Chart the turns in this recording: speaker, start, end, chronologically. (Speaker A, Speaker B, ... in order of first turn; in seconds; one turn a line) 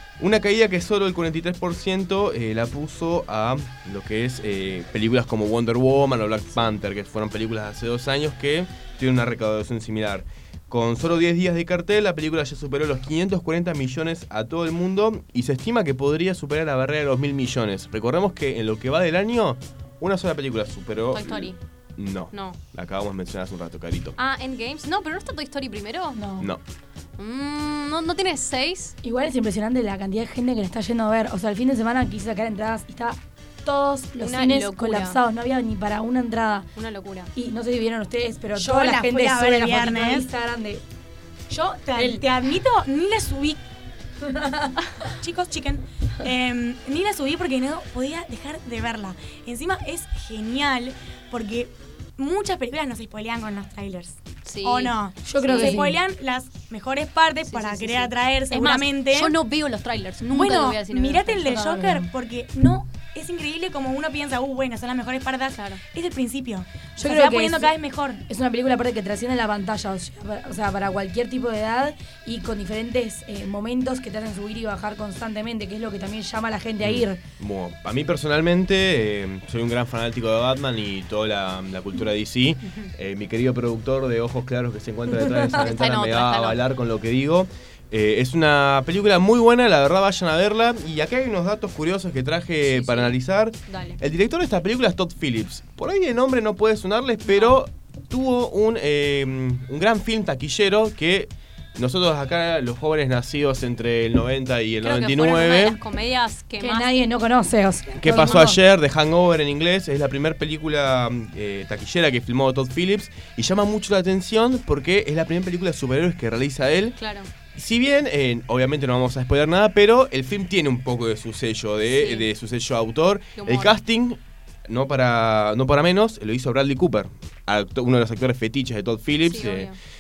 Speaker A: 0.2-24.1
Speaker B: 6.5-6.8
Speaker B: 21.1-21.6
Speaker B: 22.3-22.6
Speaker B: 24.2-26.2
Speaker C: 26.1-26.5
Speaker B: 27.2-28.9
Speaker C: 29.0-36.7
Speaker B: 34.2-35.2
Speaker B: 36.8-37.3
Speaker C: 37.4-40.8
Speaker D: 38.5-40.3
Speaker D: 41.5-43.6
Speaker C: 41.9-42.3
Speaker C: 44.2-44.7
Speaker D: 45.2-59.4
Speaker B: 54.5-55.9
Speaker C: 55.2-56.0
Speaker B: 57.4-61.4
Speaker D: 60.3-68.2
Speaker C: 61.1-62.1
Speaker B: 65.5-65.8
Speaker C: 67.0-67.7
Speaker C: 68.2-77.2
Speaker A: 76.8-105.8
Speaker B: 85.5-86.6
Speaker B: 92.6-94.0
Speaker B: 97.2-97.6
Speaker B: 104.8-107.0
Speaker C: 106.6-108.6
Speaker A: 108.0-117.0
Speaker B: 117.0-117.3
Speaker A: 117.5-129.7
Speaker B: 121.8-122.3
Speaker B: 123.4-123.7
Speaker B: 129.2-129.8